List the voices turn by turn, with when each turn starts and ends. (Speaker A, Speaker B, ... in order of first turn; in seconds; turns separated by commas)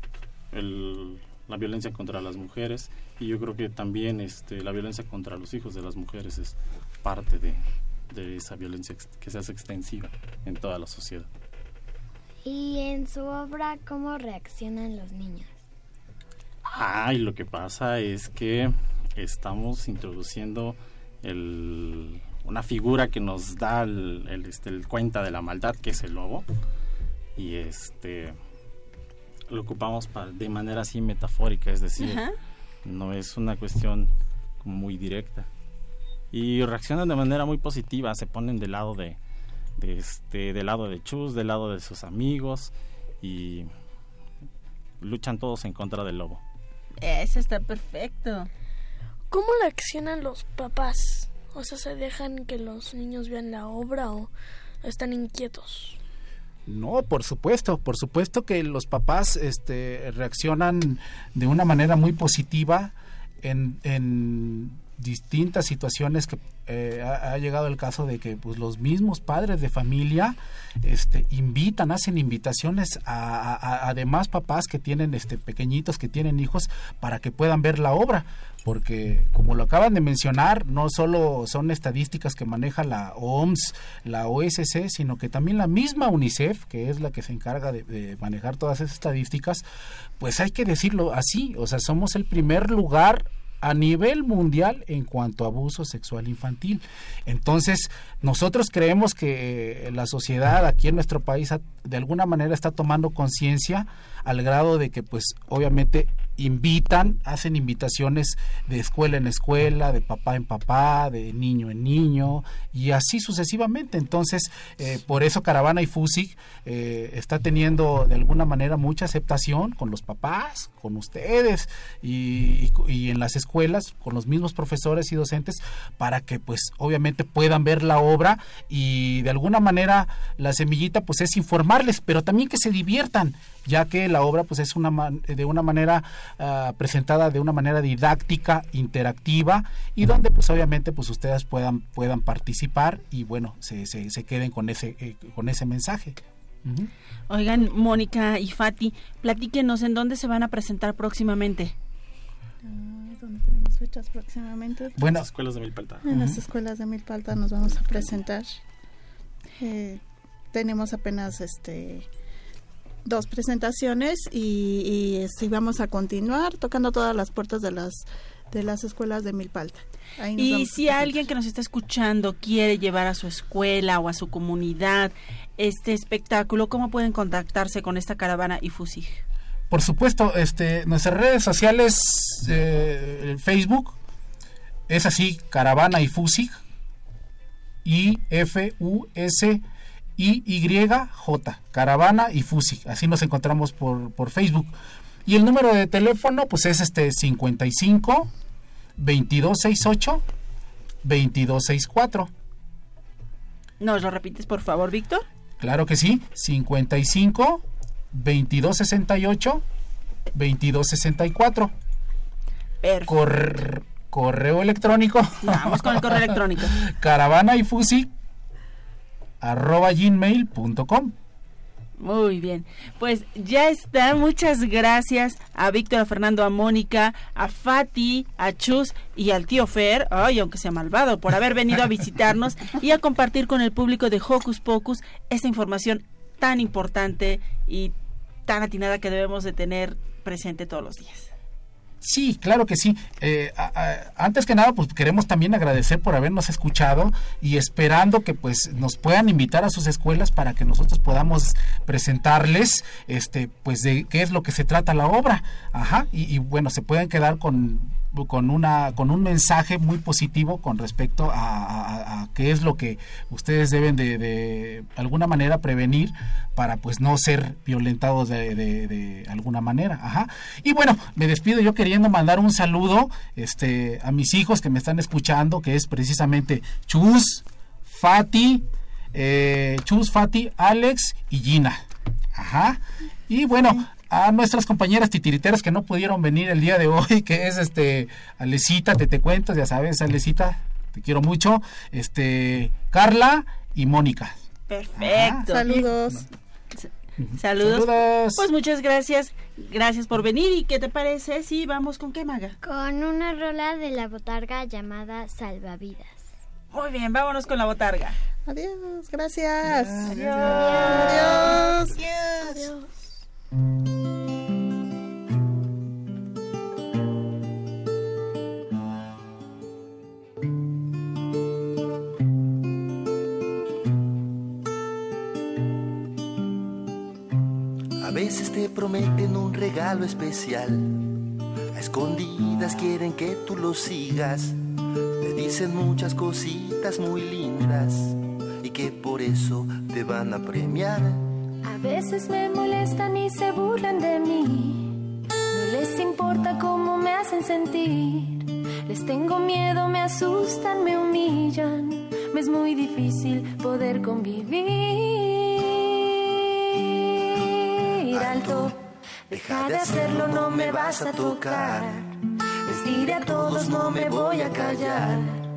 Speaker A: 0.5-11.3, Speaker B: 12.4-15.5, Speaker A: 16.7-26.4, Speaker A: 27.4-28.4, Speaker A: 29.5-32.3, Speaker C: 32.0-32.3, Speaker A: 32.8-35.5, Speaker A: 36.3-39.2, Speaker A: 39.8-43.7, Speaker A: 45.0-46.4, Speaker C: 47.0-48.5, Speaker D: 49.3-54.3, Speaker D: 54.8-56.0, Speaker E: 56.6-89.6, Speaker E: 90.2-146.9, Speaker C: 147.3-151.7, Speaker F: 152.6-155.0, Speaker E: 155.0-155.3, Speaker A: 155.0-156.1, Speaker F: 156.0-158.6, Speaker E: 156.1-156.4, Speaker F: 159.6-160.0, Speaker F: 160.5-162.1, Speaker F: 163.0-171.2, Speaker C: 170.3-179.2, Speaker E: 179.7-184.0, Speaker E: 184.9-186.6, Speaker E: 187.8-189.6, Speaker E: 190.2-194.7, Speaker E: 195.2-198.3, Speaker E: 199.0-200.2, Speaker E: 201.0-202.3, Speaker C: 203.8-205.2, Speaker E: 205.6-209.6, Speaker E: 210.3-211.7, Speaker C: 212.8-213.1, Speaker E: 213.1-218.1, Speaker C: 215.4-216.8, Speaker E: 219.4-221.1, Speaker C: 222.0-237.9, Speaker C: 238.4-241.3, Speaker E: 242.0-294.4, Speaker C: 294.7-295.8, Speaker E: 295.0-295.5, Speaker F: 295.4-296.2, Speaker C: 296.8-302.6, Speaker E: 297.2-298.4, Speaker B: 302.6-306.3, Speaker C: 306.7-308.2, Speaker F: 308.4-312.6, Speaker C: 310.0-311.7, Speaker D: 312.4-313.1, Speaker G: 328.0-331.1, Speaker G: 331.7-334.6, Speaker G: 335.2-341.2, Speaker H: 341.6-358.8, Speaker G: 358.1-358.8, Speaker H: 359.3-362.0, Speaker G: 359.3-362.0, Speaker G: 362.7-365.2, Speaker H: 362.7-365.4